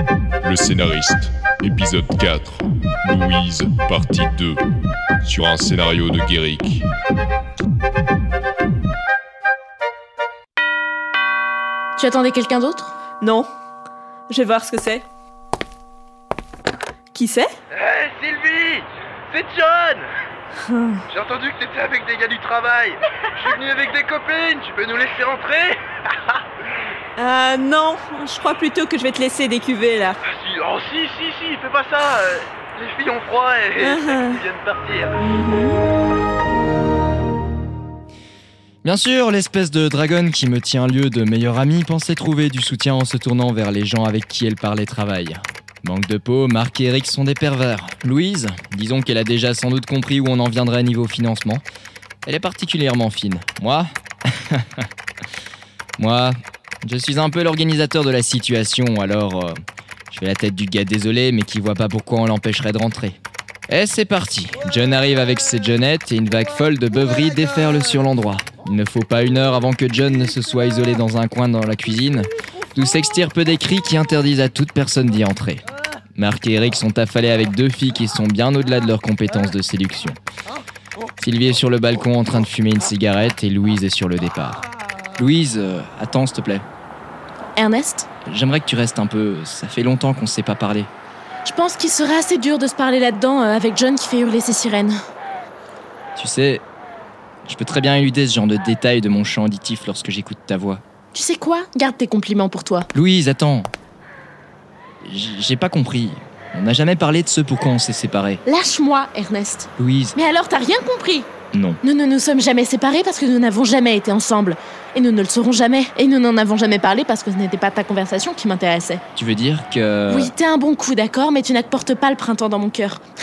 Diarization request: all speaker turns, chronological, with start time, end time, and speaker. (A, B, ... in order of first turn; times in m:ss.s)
0:00.4-0:04.6 A
0:05.2-0:06.8 A
0:12.0-0:12.9 B
0:13.2-0:13.5 C
0:14.3-0:15.0 C
0:17.1-0:17.5 C
0:17.7-0:20.1 D
0:20.7-0:21.0 C
0:21.1-0:25.8 D
0:27.2-0:30.2 C
0:30.2-0:35.2 D
0:33.8-0:34.4 C
0:35.2-0:35.8 C
0:38.8-0:51.6 E
0:52.2-0:54.9 E
0:56.0-0:59.6 E
1:00.1-1:03.2 E
1:03.7-1:15.6 E
1:16.2-1:20.2 E
1:21.2-1:24.6 E
1:25.2-1:26.6 E
1:27.6-1:28.1 B
1:28.2-1:30.9 E
1:31.4-1:35.0 B
1:36.2-1:36.6 E
1:37.4-1:40.8 E
1:41.1-1:42.9 B
1:42.9-1:43.7 E
1:45.0-1:48.4 E
1:48.4-1:51.3 B
1:49.8-1:50.2 E
1:51.5-1:51.8 E
1:51.8-1:59.0 B
1:59.1-2:00.3 E
2:00.1-2:03.0 B